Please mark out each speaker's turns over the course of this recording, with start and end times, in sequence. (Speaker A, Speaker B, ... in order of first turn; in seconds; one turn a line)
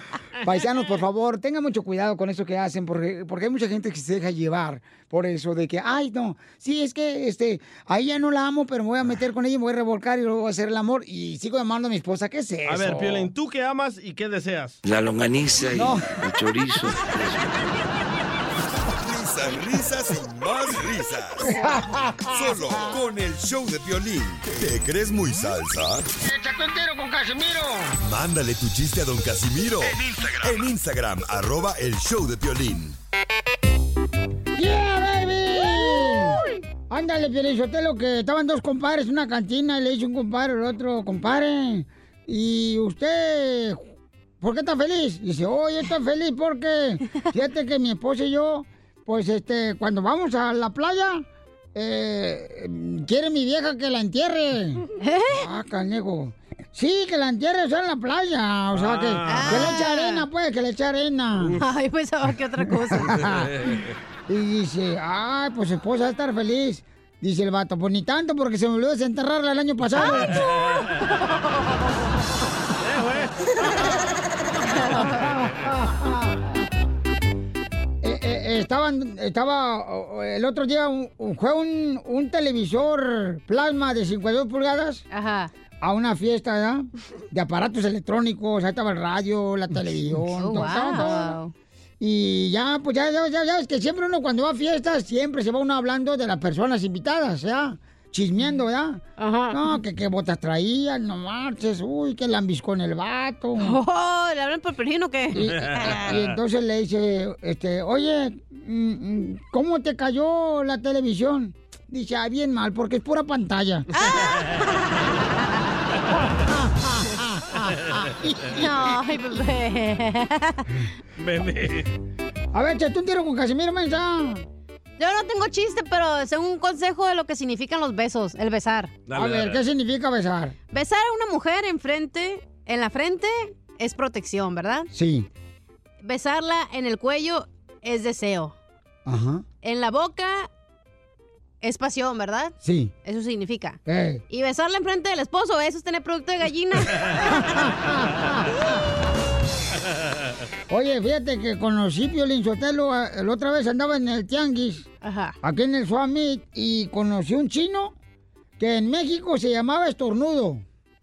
Speaker A: 0.4-13.3
Speaker B: 12.7-14.8
Speaker C: 14.8-17.6
Speaker A: 15.7-16.2
Speaker D: 19.0-21.6
Speaker A: 21.4-22.9
Speaker D: 22.3-26.1
Speaker A: 26.2-27.9
Speaker D: 28.0-33.0
Speaker A: 34.6-43.8
Speaker A: 44.4-54.8
Speaker E: 55.0-55.4
Speaker A: 55.4-61.6
Speaker B: 58.7-59.7
Speaker E: 59.3-60.2
Speaker E: 61.6-63.2
Speaker A: 62.9-63.7
Speaker B: 63.2-63.9
Speaker A: 64.3-70.4
Speaker B: 72.8-73.6
Speaker A: 74.9-76.6
Speaker A: 78.0-85.0
Speaker E: 85.1-85.5
Speaker A: 85.8-91.4
Speaker E: 90.4-91.5
Speaker A: 92.0-103.8
Speaker E: 99.2-99.8
Speaker E: 103.6-106.1
Speaker A: 105.3-113.9
Speaker E: 113.9-115.3
Speaker A: 116.4-118.9
Speaker E: 118.5-120.8
Speaker B: 121.2-121.9
Speaker A: 122.5-124.4
Speaker E: 125.0-128.9
Speaker B: 129.1-129.6
Speaker A: 129.1-130.5
Speaker E: 130.7-134.9
Speaker A: 134.9-135.3
Speaker E: 136.0-138.6
Speaker A: 139.1-139.4
Speaker E: 139.6-140.5
Speaker E: 141.6-147.7
Speaker A: 142.6-142.9
Speaker A: 143.8-144.2
Speaker A: 147.4-148.5
Speaker A: 150.7-154.9
Speaker E: 155.0-155.4
Speaker A: 155.4-157.9
Speaker A: 158.6-160.6